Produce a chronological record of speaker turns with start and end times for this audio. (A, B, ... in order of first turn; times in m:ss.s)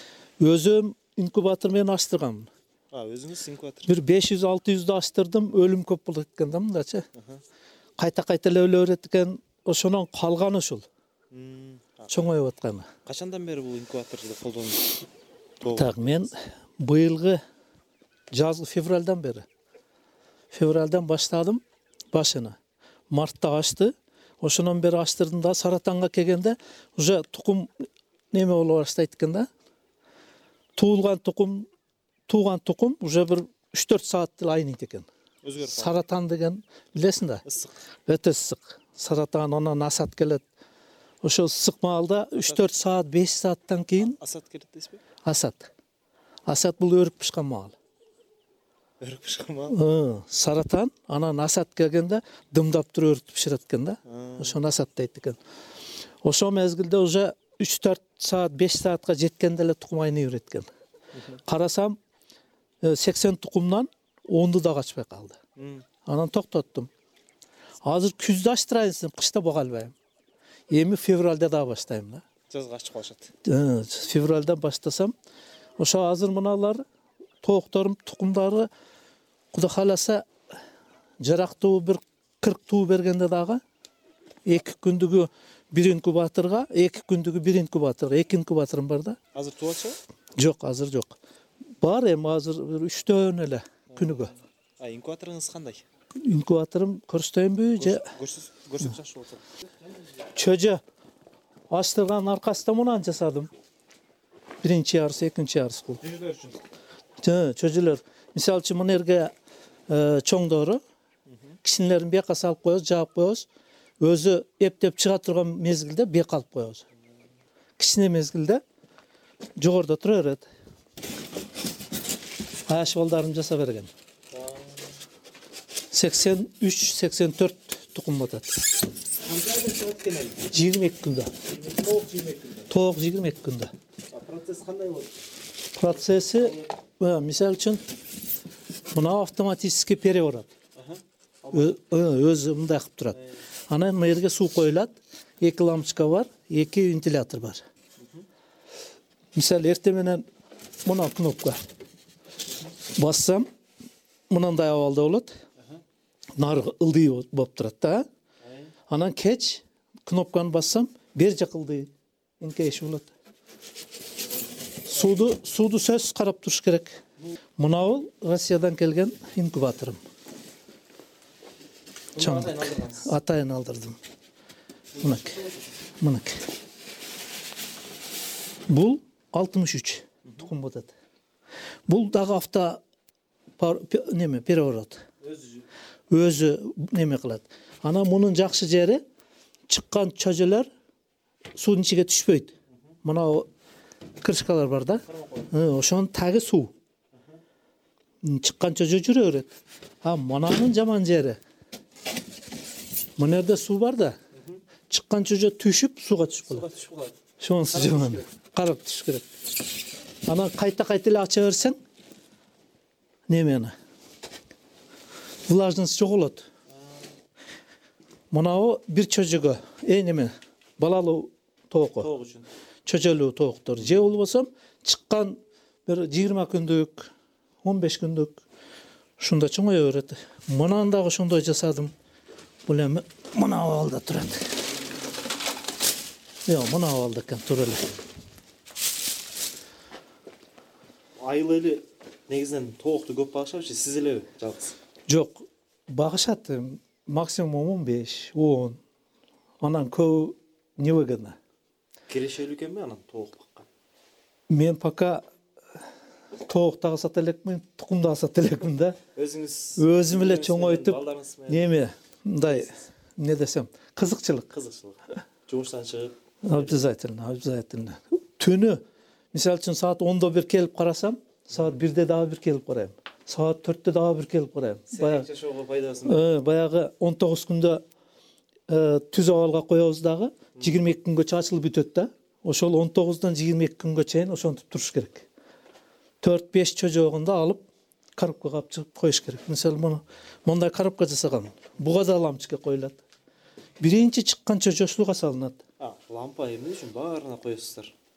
0:00.4-0:02.5 A
0:02.9-0:03.9 B
0:03.9-0:07.1 A
0:07.2-0:07.4 B
0:08.0-0:10.9 A
0:11.3-0:12.3 B
0:12.1-0:12.9 A
0:13.0-0:15.0 B
0:15.6-0:16.1 B
0:15.7-0:17.4 A
0:18.3-0:19.5 A
0:20.5-0:21.6 A
0:22.1-0:22.6 A
0:23.1-0:29.5 A
0:30.8-0:31.7 A
0:32.3-0:35.1 A
0:35.4-0:36.0 B
0:35.7-0:37.4 A
0:37.4-0:37.8 B
0:38.1-0:40.4 A
0:41.2-0:44.2 A
0:42.4-0:42.7 B
0:44.0-0:45.0 B
0:45.2-0:45.7 A
0:46.5-0:47.8 A
0:49.0-0:49.8 B
0:49.7-0:55.4 A
0:54.1-0:54.6 B
0:56.2-1:00.7 A
1:01.4-1:02.0 A
1:02.8-1:05.4 A
1:05.6-1:05.8 B
1:06.1-1:06.9 A
1:07.8-1:09.9 A
1:10.7-1:12.2 A
1:12.5-1:13.3 B
1:13.4-1:15.1 A
1:15.8-1:16.8 A
1:17.4-1:18.7 A
1:19.5-1:20.3 A
1:21.2-1:23.6 A
1:24.5-1:29.2 A
1:29.4-1:30.0 B
1:30.4-1:31.2 A
1:31.8-1:34.3 A
1:33.9-1:35.8 B
1:36.2-1:38.1 A
1:37.8-1:39.4 B
1:40.3-1:40.8 A
1:41.7-1:43.5 A
1:44.6-1:46.0 A
1:46.0-1:46.6 B
1:47.2-1:49.3 A
1:49.9-1:50.8 A
1:51.6-1:53.5 A
1:54.0-1:56.8 A
1:57.8-1:58.6 A
1:59.6-2:00.5 A
2:02.7-2:03.9 A
2:04.3-2:05.0 B
2:05.9-2:08.6 A
2:09.2-2:10.5 B
2:10.5-2:11.3 A
2:11.5-2:12.7 B
2:12.7-2:13.7 A
2:14.1-2:15.1 B
2:15.8-2:17.8 A
2:15.8-2:16.7 B
2:18.9-2:20.5 A
2:20.8-2:21.7 B
2:21.5-2:23.2 A
2:23.1-2:23.4 B
2:23.7-2:27.6 A
2:28.0-2:28.2 B
2:29.4-2:30.2 A
2:30.9-2:31.6 A
2:33.0-2:33.5 A
2:34.3-2:35.3 A
2:36.4-2:38.1 A
2:38.4-2:38.7 B
2:38.9-2:43.1 A
2:44.9-2:47.0 A
2:47.6-2:50.0 A
2:52.1-2:53.1 B
2:52.2-2:54.0 A
2:54.9-2:55.8 B
2:55.0-2:55.4 A
2:56.0-2:56.4 A
2:58.7-3:00.9 A
3:01.9-3:02.8 A
3:03.6-3:05.0 A
3:05.2-3:05.6 B
3:06.1-3:09.0 A
3:09.7-3:10.7 A
3:11.6-3:12.5 A
3:13.0-3:13.5 A
3:14.2-3:16.7 A
3:15.1-3:15.5 B
3:18.2-3:21.4 A
3:23.2-3:24.2 A
3:24.9-3:26.7 A
3:26.4-3:27.2 B
3:27.4-3:29.3 A
3:27.7-3:28.3 B
3:30.3-3:31.8 A
3:33.3-3:33.7 A
3:35.5-3:36.4 A
3:36.7-3:37.1 B
3:38.3-3:42.1 A
3:42.0-3:42.5 B
3:42.9-3:47.1 A
3:47.6-3:48.4 A
3:49.2-3:51.9 A
3:52.7-3:54.5 A
3:56.5-3:57.8 A
4:01.2-4:04.7 B
4:05.1-4:08.8 A
4:09.6-4:11.4 A
4:12.1-4:13.7 B
4:14.5-4:15.2 A
4:16.4-4:19.0 A
4:19.2-4:21.7 B
4:19.8-4:24.5 A
4:22.4-4:22.8 B
4:24.5-4:26.8 B
4:26.4-4:28.8 A
4:29.3-4:35.3 A
4:34.9-4:36.3 B
4:36.0-4:37.8 A
4:38.7-4:45.3 A
4:46.2-4:47.7 A
4:48.2-4:53.0 A
4:53.8-4:55.6 A
4:55.8-4:57.9 B